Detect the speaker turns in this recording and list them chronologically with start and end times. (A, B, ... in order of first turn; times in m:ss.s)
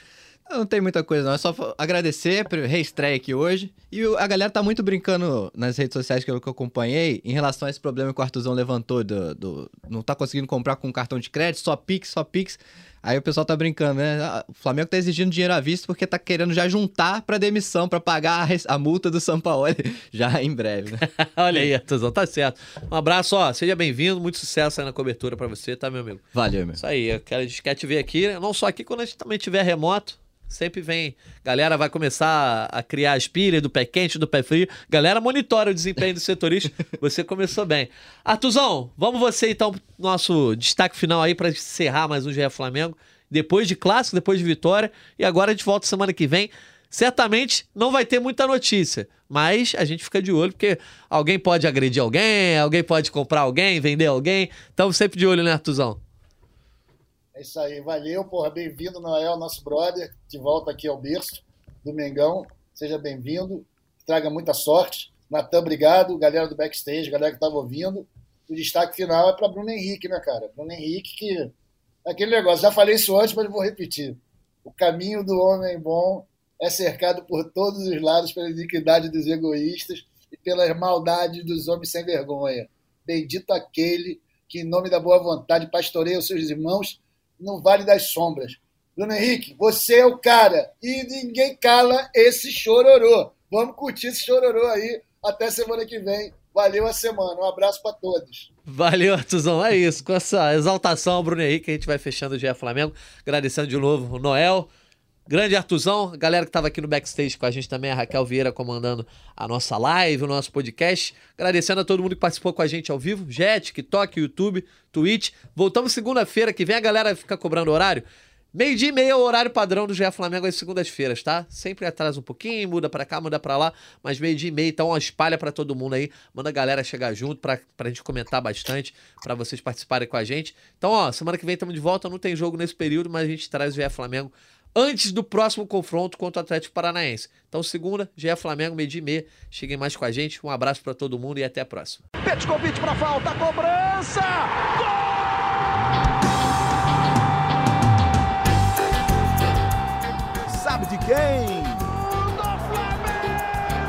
0:00.5-0:21.6 A
0:21.0-0:26.2 B
0:26.3-0:26.8 A
0:26.8-0:56.0 B
0:57.3-1:11.5 C
1:12.0-1:38.5 C
1:38.7-1:44.7 B
1:45.3-2:22.0 B
2:22.2-2:24.7 D
2:30.5-2:33.4 D